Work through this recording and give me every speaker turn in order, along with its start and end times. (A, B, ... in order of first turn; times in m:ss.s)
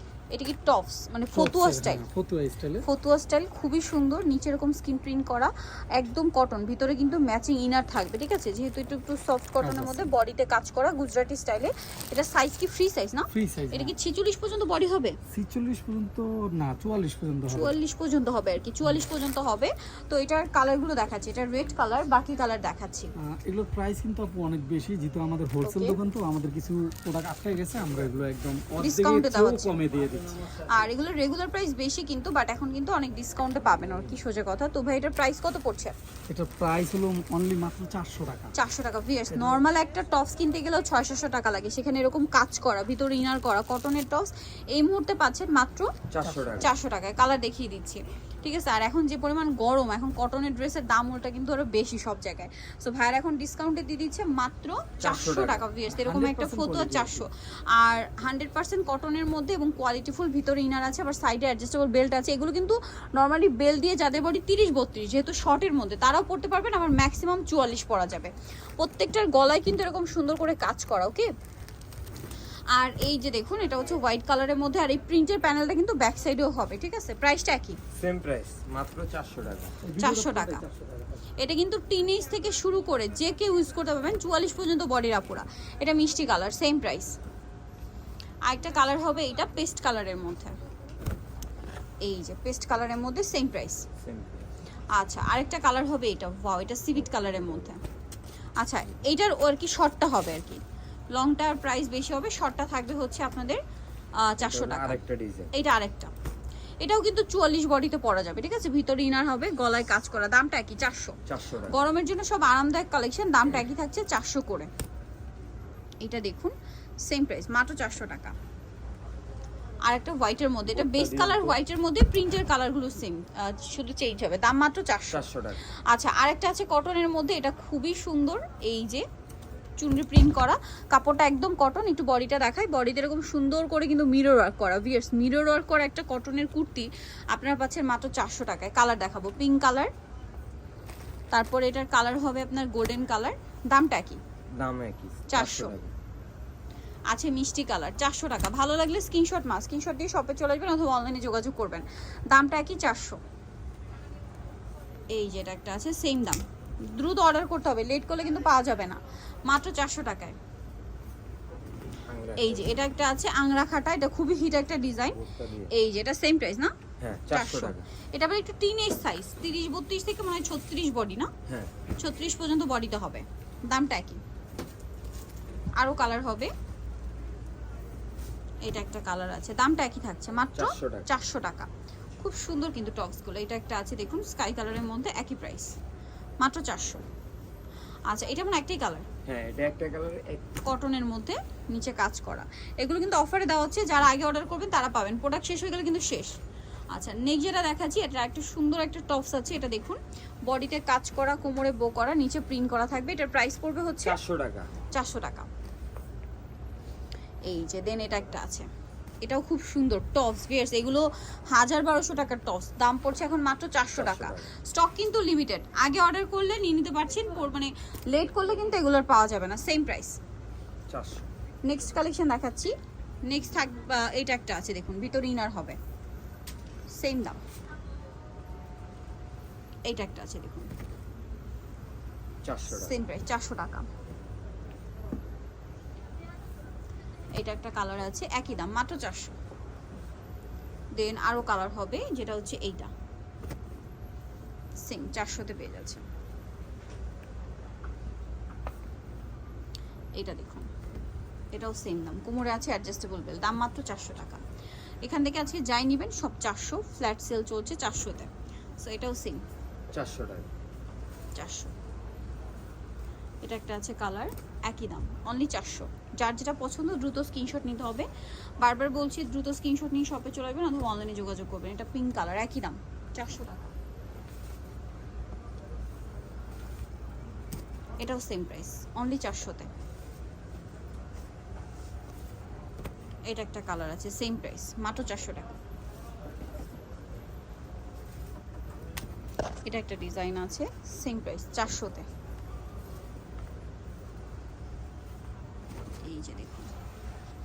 0:00.3-0:02.0 A
0:01.3-0:02.8 B
0:02.8-0:15.2 A
0:09.6-0:10.0 B
0:13.3-0:13.9 B
0:15.3-0:17.7 B
0:17.5-0:23.1 A
0:23.2-0:30.7 B
0:25.6-0:26.0 A
0:28.8-0:29.8 A
0:30.5-0:35.9 A
0:36.3-0:38.5 B
0:38.5-0:45.9 A
0:39.3-0:39.6 B
0:46.1-0:46.7 C
0:46.2-0:46.5 B
0:46.6-1:11.3 A
0:55.0-0:55.6 C
0:55.9-0:57.2 B
1:12.7-1:17.8 A
1:17.9-1:19.8 C
1:19.8-1:21.2 B
1:20.0-1:20.6 A
1:21.4-1:27.2 A
1:28.5-1:30.6 A
1:32.0-1:33.9 A
1:34.0-1:34.5 C
1:34.9-1:37.8 A
1:38.6-1:40.6 A
1:41.1-1:43.6 A
1:44.2-1:45.0 A
1:44.4-1:45.5 C
1:45.5-1:46.1 A
1:46.8-1:54.7 A
1:51.3-1:51.8 C
1:56.0-1:56.5 A
1:57.0-1:58.3 A
1:59.9-2:05.3 A
2:00.7-2:01.6 C
2:05.1-2:05.6 C
2:05.9-2:09.0 A
2:09.8-2:19.9 A
2:21.3-2:24.2 A
2:24.6-2:25.9 C
2:25.3-2:25.8 A
2:27.1-2:33.2 A
2:35.1-2:40.4 A
2:42.1-2:42.7 C
2:42.4-2:46.7 A
2:45.1-2:45.7 C
2:47.0-2:47.9 C
2:47.3-2:51.3 A
2:52.0-2:54.2 A
2:55.8-2:56.5 A
2:58.6-3:05.7 A
3:00.5-3:01.1 C
3:06.4-3:07.0 A
3:08.1-3:09.0 A
3:09.2-3:10.5 C
3:10.6-3:16.3 A
3:16.9-3:24.2 A
3:24.0-3:24.8 C
3:24.9-3:25.5 A
3:27.5-3:28.7 A
3:29.2-3:40.2 A
3:33.9-3:34.5 C
3:40.9-3:41.3 C
3:41.6-3:42.7 A
3:43.2-3:45.8 A
3:46.9-3:47.4 A
3:49.9-3:50.7 A
3:52.4-3:52.9 C
3:52.7-3:53.9 A
3:57.4-3:59.3 A
4:01.0-4:02.9 A
4:04.8-4:06.0 A
4:10.2-4:10.7 A
4:11.5-4:14.4 A
4:15.0-4:19.4 A
4:19.9-4:20.5 C
4:21.4-4:21.7 A
4:23.4-4:28.1 A
4:28.6-4:33.7 A
4:38.0-4:39.7 A
4:43.3-4:45.5 A
4:49.6-4:52.0 A
4:56.0-4:56.7 A